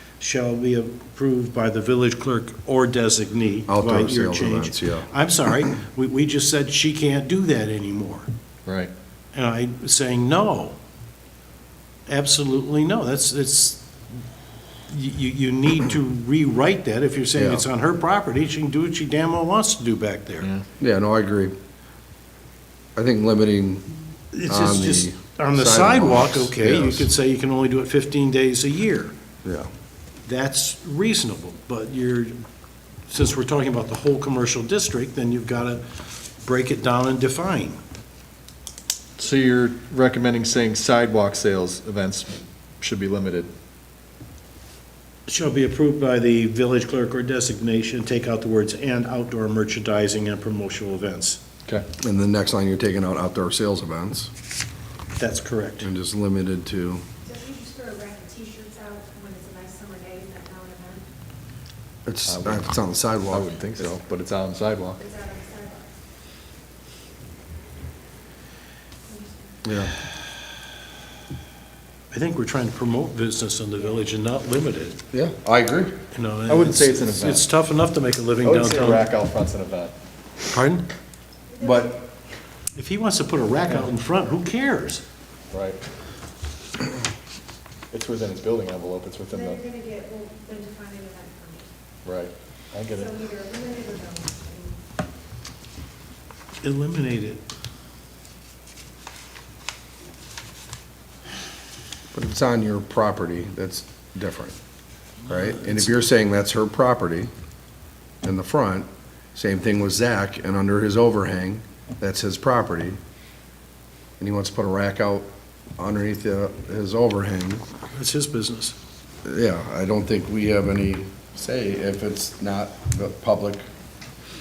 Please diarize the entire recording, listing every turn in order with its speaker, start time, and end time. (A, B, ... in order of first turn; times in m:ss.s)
0:00.2-0:08.3 A
0:03.7-0:05.1 B
0:08.7-0:08.9 C
0:09.3-0:10.8 A
0:12.1-0:13.9 A
0:14.9-0:20.5 A
0:17.4-0:17.7 B
0:20.8-0:21.5 B
0:23.0-0:23.8 B
0:24.3-0:29.1 A
0:24.5-0:27.1 B
0:30.3-0:32.4 A
0:33.1-0:37.8 A
0:39.2-0:43.5 C
0:45.3-0:51.4 A
0:52.0-0:54.3 B
0:55.2-0:55.9 A
0:55.8-0:57.0 B
0:57.8-1:00.9 D
1:02.1-1:03.9 B
1:02.3-1:02.7 C
1:03.3-1:05.0 C
1:05.2-1:05.6 D
1:09.6-1:09.9 B
1:12.1-1:15.0 A
1:15.1-1:16.0 B
1:16.1-1:19.1 A
1:16.5-1:17.5 C
1:18.4-1:19.9 C
1:20.5-1:20.9 A
1:21.6-1:22.0 B
1:22.8-1:25.0 A
1:25.5-1:25.8 C
1:27.9-1:29.7 C
1:29.8-1:31.6 D
1:32.0-1:33.3 C
1:33.3-1:34.3 D
1:36.6-1:37.5 A
1:42.1-1:44.6 B
1:45.3-1:47.3 B
1:48.2-1:53.0 B
1:54.2-1:55.3 B
1:55.8-1:57.6 B
1:57.9-1:58.8 A
1:59.2-2:03.6 B